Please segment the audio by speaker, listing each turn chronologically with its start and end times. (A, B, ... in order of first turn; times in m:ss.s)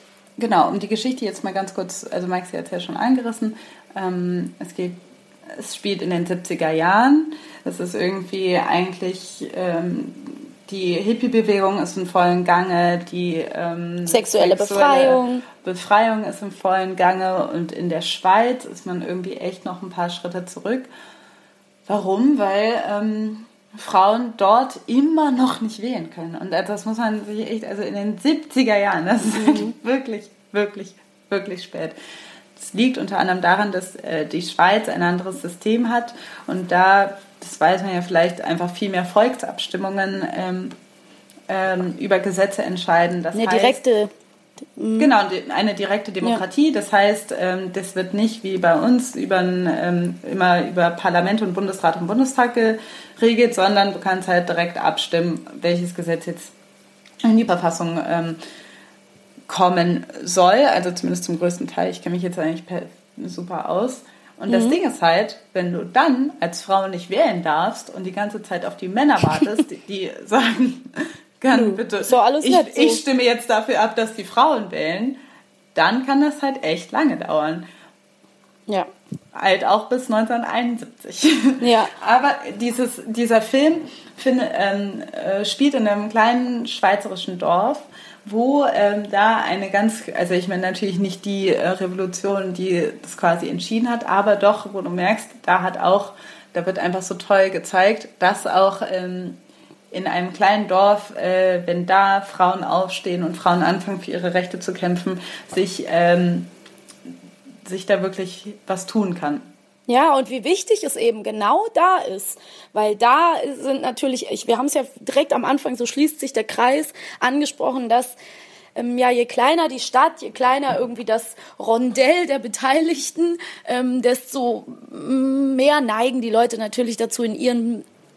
0:00.4-0:20.9 A
0:14.1-0:15.4 B
0:21.9-0:32.0 A
0:29.3-0:29.7 B
0:32.6-0:40.7 A
0:41.5-0:43.8 A
0:43.3-0:44.1 B
0:44.8-0:45.1 B
0:45.0-0:56.5 A
0:57.2-0:58.4 A
0:59.5-1:15.2 A
1:04.5-1:04.8 B
1:11.5-1:13.0 B
1:15.7-1:17.6 A
1:19.3-1:39.4 A
1:21.6-1:21.9 B
1:39.9-1:46.5 A
1:47.6-1:49.5 A
1:49.9-1:58.2 B
1:58.7-2:07.8 B